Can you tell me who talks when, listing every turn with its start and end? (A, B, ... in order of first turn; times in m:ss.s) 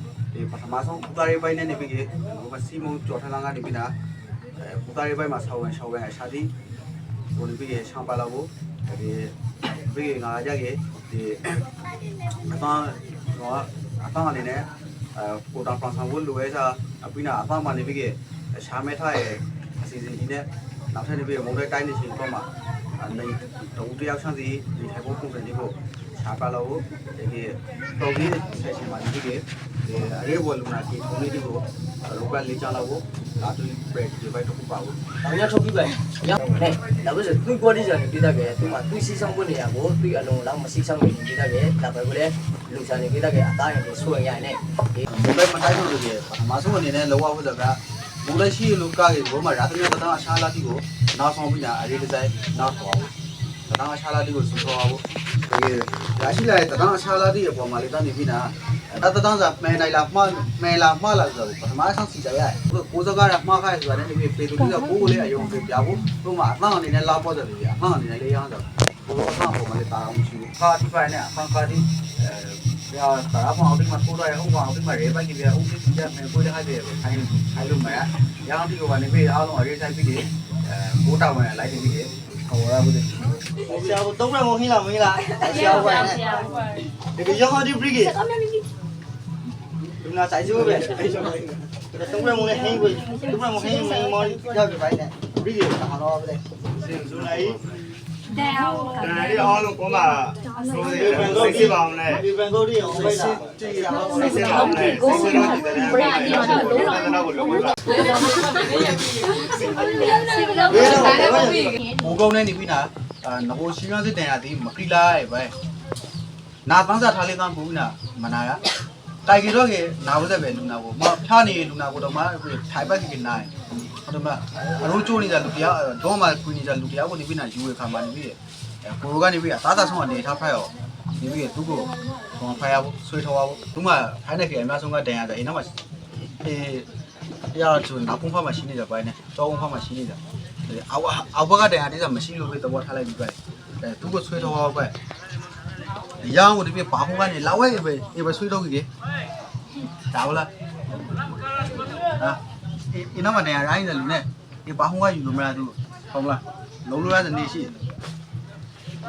0:00.3-0:03.9 A
0:04.6-0:06.5 A
0:07.3-0:11.6 A
0:12.5-0:22.5 A
0:23.0-0:35.0 A
0:35.2-0:45.0 B
0:45.0-0:53.1 A
0:53.7-1:23.3 A
1:04.8-1:05.4 C
1:23.7-1:26.5 D
1:27.1-1:28.2 D
1:30.0-1:37.6 D
1:38.4-1:39.3 C
1:39.0-1:42.2 E
1:40.9-1:45.0 D
1:43.8-1:48.0 E
1:45.6-1:47.1 C
1:48.0-1:48.8 C
1:49.4-1:51.3 C
1:50.7-1:51.8 D
1:51.9-1:55.5 A
1:56.6-1:58.6 A
1:59.2-2:03.5 A
2:04.0-2:15.7 A
2:16.3-2:16.9 A
2:17.5-2:24.9 A
2:26.2-2:28.9 A
2:30.1-2:30.5 A
2:32.9-2:37.8 A